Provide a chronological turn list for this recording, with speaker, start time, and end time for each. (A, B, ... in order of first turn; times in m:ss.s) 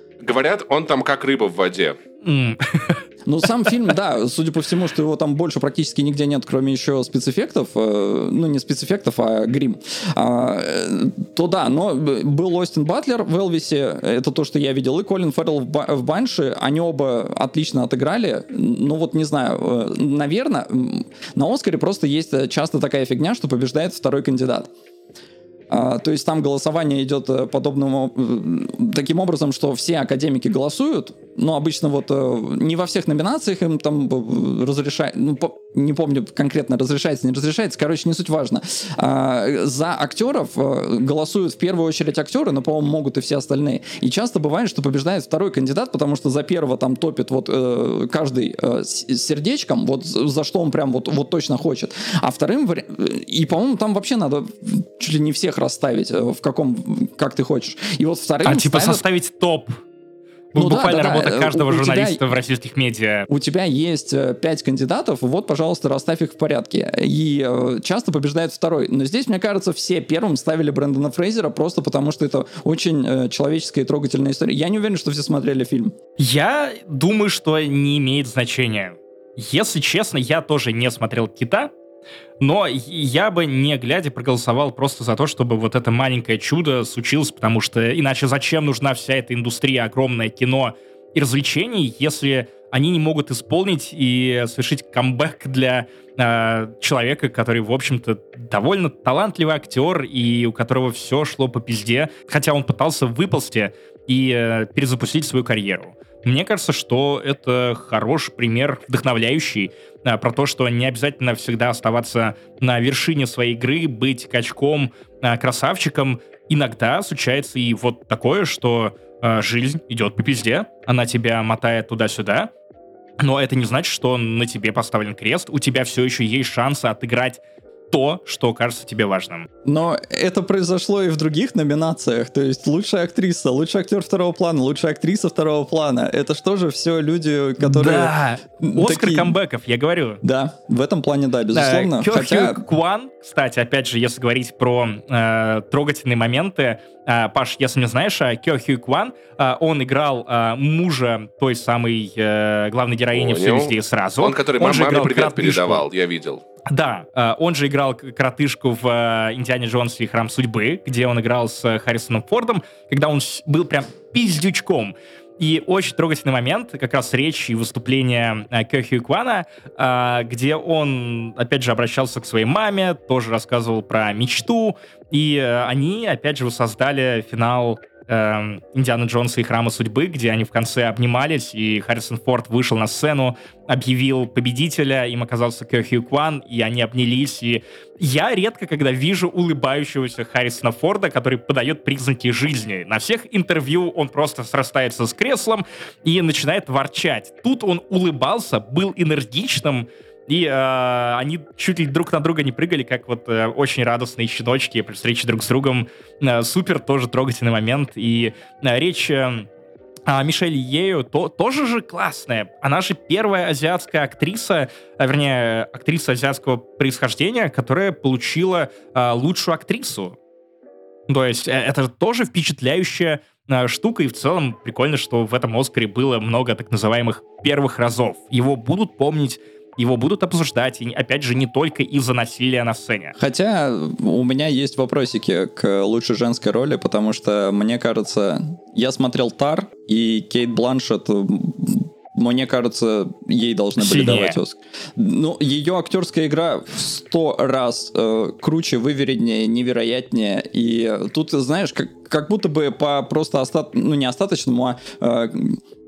0:00.2-0:02.0 A
0:02.2-0:03.0 B
0:03.2-0:24.7 C
0:25.7-0:59.0 C
0:58.4-0:59.8 B
1:00.5-1:03.3 B
1:00.6-1:02.2 C
1:03.3-1:15.9 C
1:16.2-1:21.7 B
1:22.4-2:02.5 B
2:03.2-2:09.5 B
2:09.6-2:19.4 C
2:17.6-2:20.2 B
2:20.2-2:22.6 C
2:21.5-2:35.8 B
2:33.1-2:36.4 A
2:36.6-3:29.5 B
3:30.1-3:40.2 B
3:41.1-3:53.1 B
3:53.2-4:15.6 C
4:03.8-4:04.4 B